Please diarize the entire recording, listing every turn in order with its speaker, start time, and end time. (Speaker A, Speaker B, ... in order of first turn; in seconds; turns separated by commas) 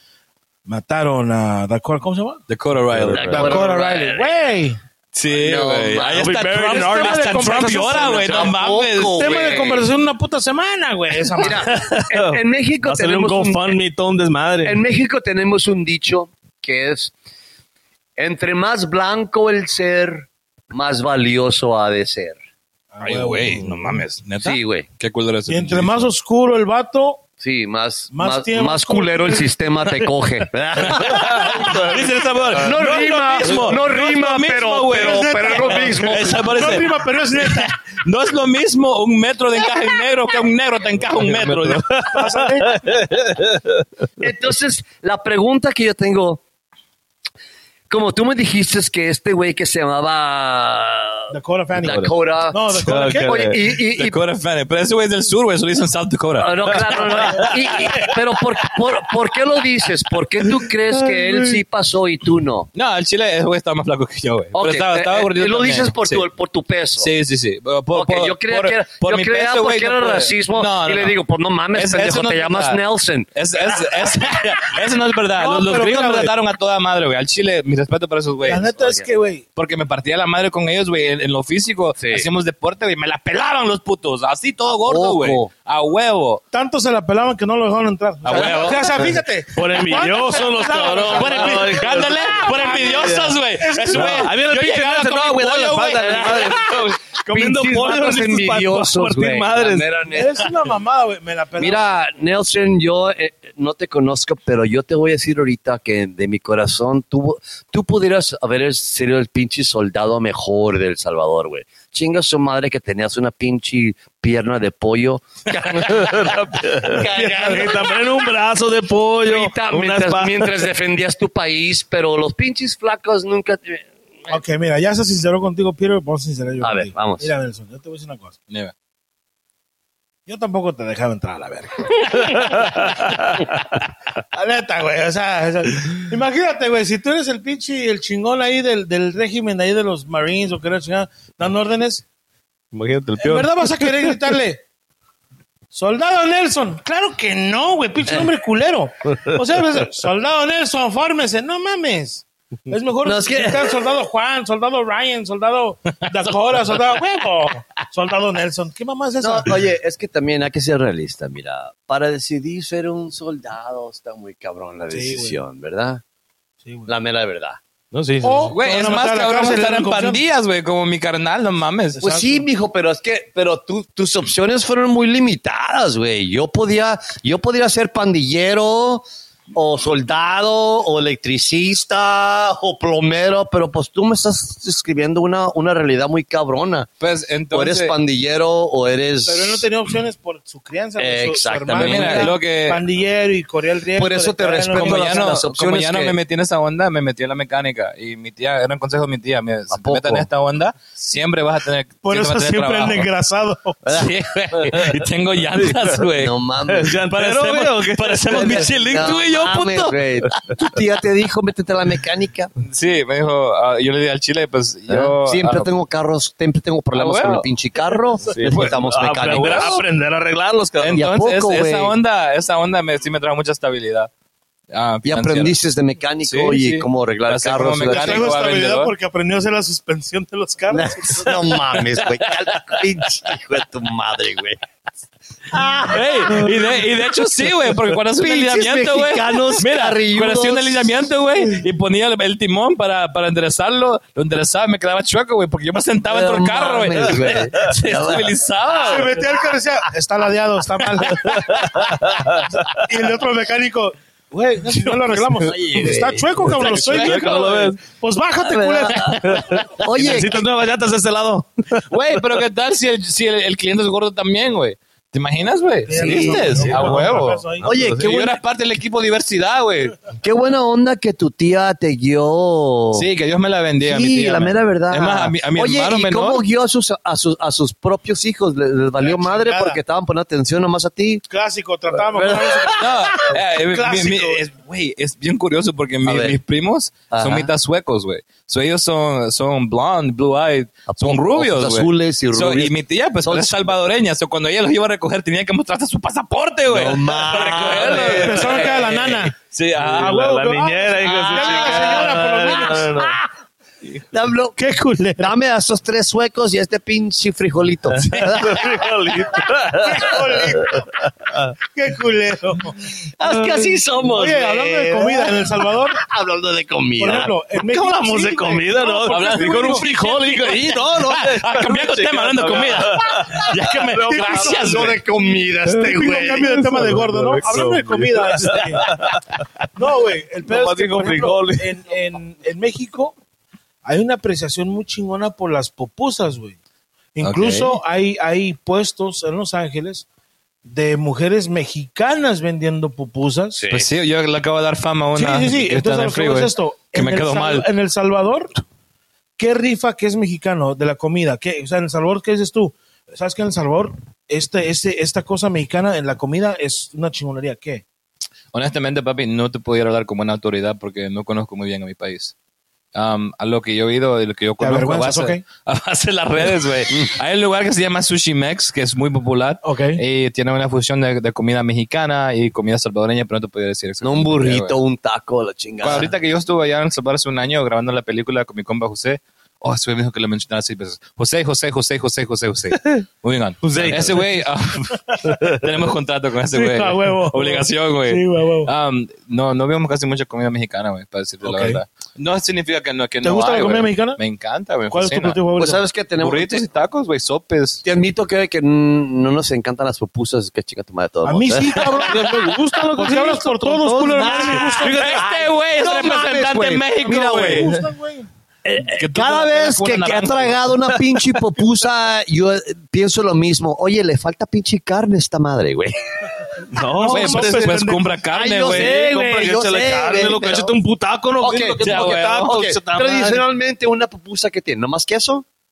Speaker A: 0.7-2.4, Speaker B: 2.5-3.6, Speaker C: 3.0-3.4, Speaker D: 3.1-4.3, Speaker A: 3.1-4.8, Speaker B: 5.1-9.6, Speaker D: 5.3-6.4, Speaker C: 6.1-8.5, Speaker D: 7.9-9.8, Speaker A: 9.1-11.8, Speaker D: 11.4-13.8, Speaker C: 11.6-14.8, Speaker D: 14.6-17.1, Speaker D: 18.2-22.4, Speaker A: 22.9-24.0, Speaker B: 23.0-26.1, Speaker D: 24.4-24.9, Speaker A: 25.5-27.2, Speaker D: 27.4-36.6, Speaker A: 28.1-30.1, Speaker C: 30.9-33.7, Speaker B: 30.9-42.0, Speaker A: 34.9-37.7, Speaker C: 41.2-43.9, Speaker A: 42.1-42.8, Speaker D: 44.2-46.4, Speaker D: 47.9-54.1, Speaker A: 51.3-53.5, Speaker C: 51.8-52.1, Speaker C: 52.8-53.7, Speaker B: 53.9-57.5, Speaker D: 56.4-62.7, Speaker C: 57.2-57.5, Speaker B: 62.7-66.3, Speaker D: 64.5-67.1, Speaker B: 67.0-71.2, Speaker D: 67.9-73.8, Speaker B: 71.7-72.8, Speaker B: 73.3-78.6, Speaker A: 75.4-76.3, Speaker A: 78.4-79.4, Speaker D: 78.8-79.0, Speaker B: 79.6-86.4, Speaker D: 82.0-82.3, Speaker D: 84.9-85.5, Speaker A: 86.5-94.3, Speaker B: 88.2-88.9, Speaker C: 89.5-93.4, Speaker B: 90.7-96.8, Speaker C: 93.9-99.9, Speaker D: 96.0-100.5, Speaker A: 100.1-101.9, Speaker D: 101.6-118.0, Speaker C: 115.8-120.7, Speaker A: 117.1-117.8, Speaker D: 119.2-124.3, Speaker A: 124.3-128.3, Speaker D: 126.6-127.3, Speaker A: 130.3-133.4, Speaker C: 132.2-133.6, Speaker A: 134.3-142.0, Speaker C: 142.7-144.2, Speaker A: 143.2-144.6, Speaker A: 145.7-159.7, Speaker D: 153.0-153.7, Speaker D: 159.2-166.0, Speaker A: 164.9-165.4, Speaker A: 166.6-166.9, Speaker D: 166.9-167.6, Speaker C: 167.9-168.5, Speaker A: 168.2-170.2, Speaker B: 168.5-172.0, Speaker A: 171.9-172.4, Speaker D: 172.0-186.9, Speaker B: 187.0-187.9, Speaker D: 187.5-189.6, Speaker A: 189.2-195.3, Speaker D: 191.0-192.3, Speaker B: 191.7-192.8, Speaker D: 193.9-196.1, Speaker B: 194.7-203.1, Speaker D: 199.7-200.3, Speaker A: 202.0-204.0, Speaker B: 203.9-206.3, Speaker C: 204.7-204.9, Speaker C: 205.6-205.9, Speaker D: 206.1-207.0, Speaker C: 206.7-209.1, Speaker B: 207.1-209.9, Speaker D: 208.3-212.5, Speaker B: 212.6-215.7, Speaker D: 214.9-219.8, Speaker B: 216.9-217.4, Speaker C: 218.2-221.0, Speaker B: 218.4-218.7, Speaker B: 219.2-219.8, Speaker B: 220.8-224.1, Speaker D: 220.9-221.9, Speaker B: 224.7-225.6, Speaker D: 225.0-228.3, Speaker B: 226.2-228.9, Speaker A: 227.8-231.6, Speaker D: 230.7-234.6, Speaker D: 235.5-236.4, Speaker B: 235.9-249.2, Speaker D: 238.2-240.9, Speaker D: 246.1-249.1, Speaker A: 248.8-251.7, Speaker C: 251.1-252.7, Speaker A: 252.7-259.4, Speaker D: 255.4-256.6, Speaker C: 256.6-257.8, Speaker B: 256.6-257.7, Speaker D: 258.4-260.4, Speaker C: 259.2-262.2, Speaker B: 261.9-267.4, Speaker A: 265.9-267.8, Speaker D: 265.9-266.9, Speaker C: 266.8-267.1, Speaker C: 267.6-268.2, Speaker D: 267.6-268.4, Speaker B: 268.0-270.0, Speaker D: 270.2-273.1, Speaker B: 272.9-276.4, Speaker D: 273.8-281.2, Speaker A: 279.0-279.8, Speaker A: 281.3-284.4, Speaker D: 282.0-283.1, Speaker B: 282.8-300.2, Speaker D: 286.0-286.4, Speaker D: 287.1-287.5, Speaker D: 290.9-292.7, Speaker D: 293.2-293.7, Speaker D: 296.7-298.4, Speaker A: 297.5-303.1, Speaker C: 299.8-303.2, Speaker D: 301.1-302.1, Speaker D: 304.1-304.6, Speaker A: 304.6-305.3, Speaker D: 305.2-308.9, Speaker C: 307.9-311.5, Speaker A: 309.8-310.9, Speaker A: 311.6-313.0, Speaker D: 313.2-315.4, Speaker C: 313.4-313.7, Speaker A: 314.1-316.0, Speaker D: 315.9-317.3, Speaker A: 317.0-319.9, Speaker C: 317.7-323.5, Speaker B: 319.0-325.0, Speaker A: 323.9-325.0, Speaker D: 324.0-326.9, Speaker A: 325.7-328.9, Speaker C: 326.4-329.4, Speaker A: 329.7-333.1, Speaker C: 330.5-331.6, Speaker A: 333.8-336.6, Speaker A: 337.1-340.1, Speaker B: 337.2-337.8, Speaker A: 340.6-343.6, Speaker D: 343.6-343.9, Speaker B: 343.7-347.6, Speaker A: 345.1-348.6, Speaker A: 349.4-357.8, Speaker B: 358.5-362.3, Speaker B: 362.9-374.7, Speaker A: 364.6-365.4, Speaker A: 369.6-370.0, Speaker D: 374.0-376.1, Speaker B: 375.8-395.4, Speaker C: 383.6-384.3, Speaker C: 385.2-385.7, Speaker A: 386.5-388.7, Speaker A: 391.4-391.8, Speaker A: 393.2-394.2, Speaker A: 394.9-395.9, Speaker D: 395.6-396.6, Speaker B: 396.2-397.8, Speaker D: 397.8-401.8, Speaker A: 401.2-405.2, Speaker C: 402.0-405.3, Speaker D: 404.3-407.7, Speaker B: 404.5-407.7, Speaker A: 407.0-408.3, Speaker D: 408.6-415.9, Speaker B: 408.9-410.7, Speaker C: 411.1-411.4, Speaker C: 416.6-418.0, Speaker A: 416.7-417.9, Speaker B: 417.1-419.0, Speaker D: 418.3-420.8, Speaker C: 418.6-423.4, Speaker D: 421.4-425.4, Speaker B: 421.8-422.6